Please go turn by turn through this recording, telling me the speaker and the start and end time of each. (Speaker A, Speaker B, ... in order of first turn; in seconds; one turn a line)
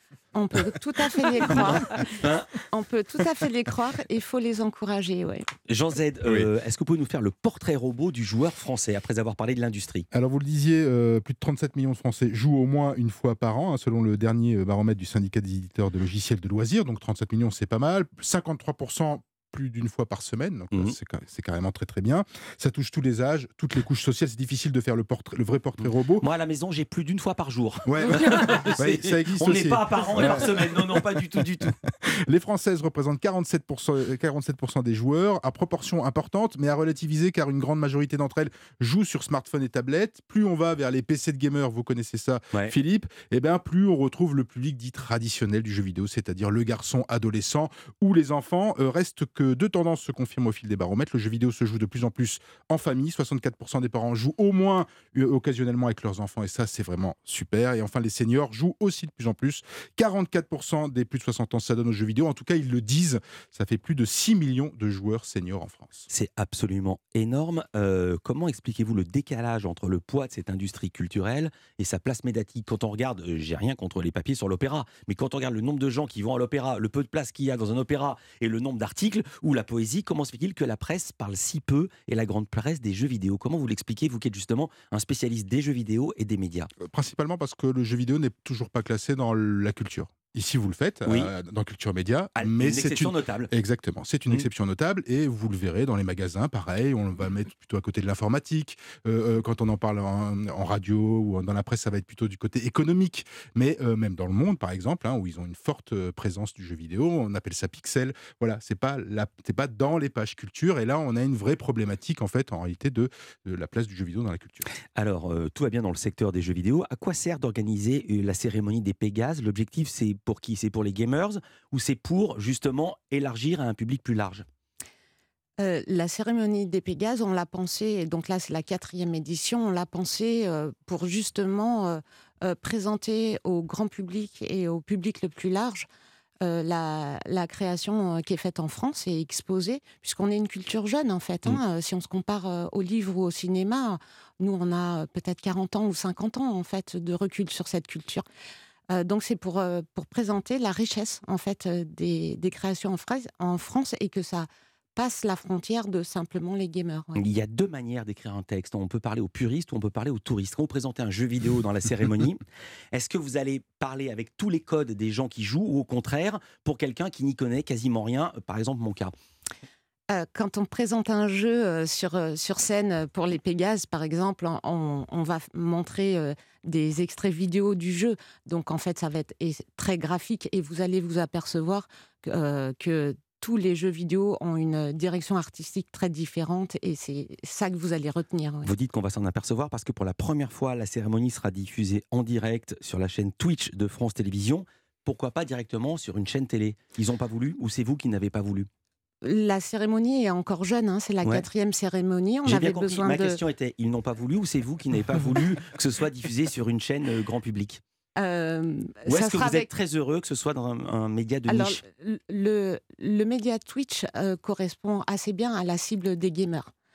Speaker A: 0.3-2.1
Speaker B: 1.5-2.5
Speaker A: 2.7-5.5
Speaker B: 5.7-10.1
Speaker C: 10.1-26.2
Speaker B: 25.8-31.7
Speaker C: 27.9-66.1
Speaker B: 66.1-86.7
Speaker C: 86.8-114.7
Speaker B: 92.3-93.5
Speaker B: 114.9-124.4
Speaker A: 125.6-135.9
Speaker A: 136.4-148.2
Speaker A: 148.9-157.2
Speaker B: 157.1-162.4
Speaker B: 162.9-169.1
Speaker A: 170.1-188.7
Speaker B: 188.6-198.7
Speaker A: 199.2-203.4
Speaker B: 201.2-201.5
Speaker B: 202.4-207.8
Speaker A: 208.2-209.7
Speaker B: 209.1-211.8
Speaker A: 211.5-216.7